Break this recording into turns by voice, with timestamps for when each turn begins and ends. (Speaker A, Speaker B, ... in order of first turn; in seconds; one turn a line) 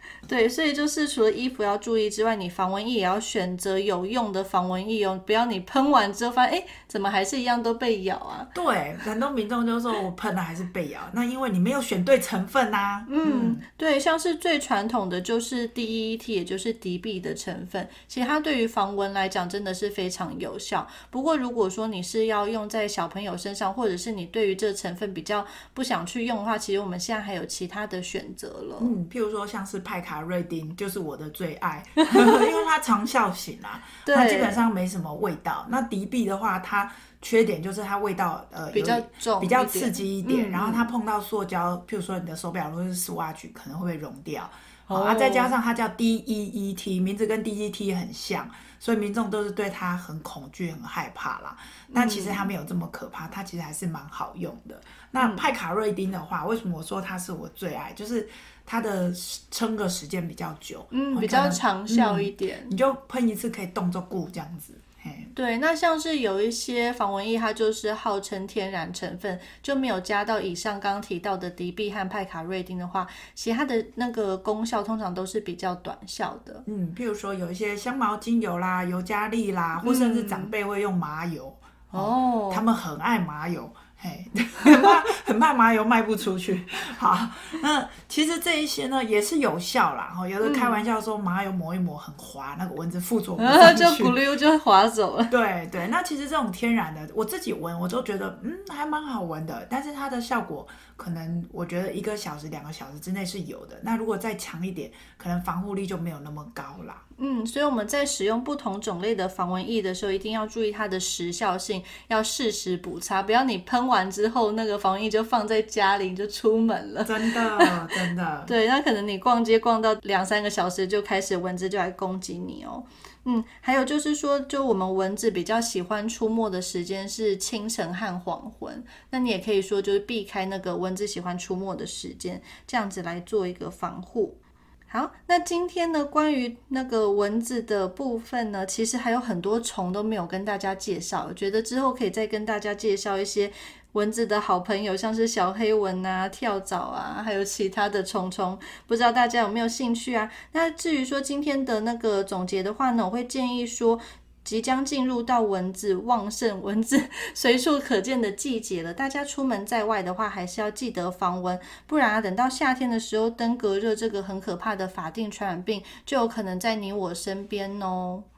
Speaker A: 0.2-8.5
Speaker B: 8.5-13.6
Speaker A: 13.1-28.9
Speaker B: 28.8-65.3
Speaker A: 34.0-34.6
Speaker A: 38.7-40.9
Speaker A: 44.9-45.5
Speaker A: 51.9-52.5
Speaker A: 55.2-55.5
Speaker A: 60.9-62.7
Speaker A: 65.3-76.7
Speaker B: 76.7-94.2
Speaker A: 79.8-80.5
Speaker A: 81.9-82.7
Speaker A: 90.4-90.8
Speaker A: 93.4-95.3
Speaker B: 95.3-107.0
Speaker A: 107.2-134.4
Speaker B: 117.0-118.5
Speaker A: 134.9-168.2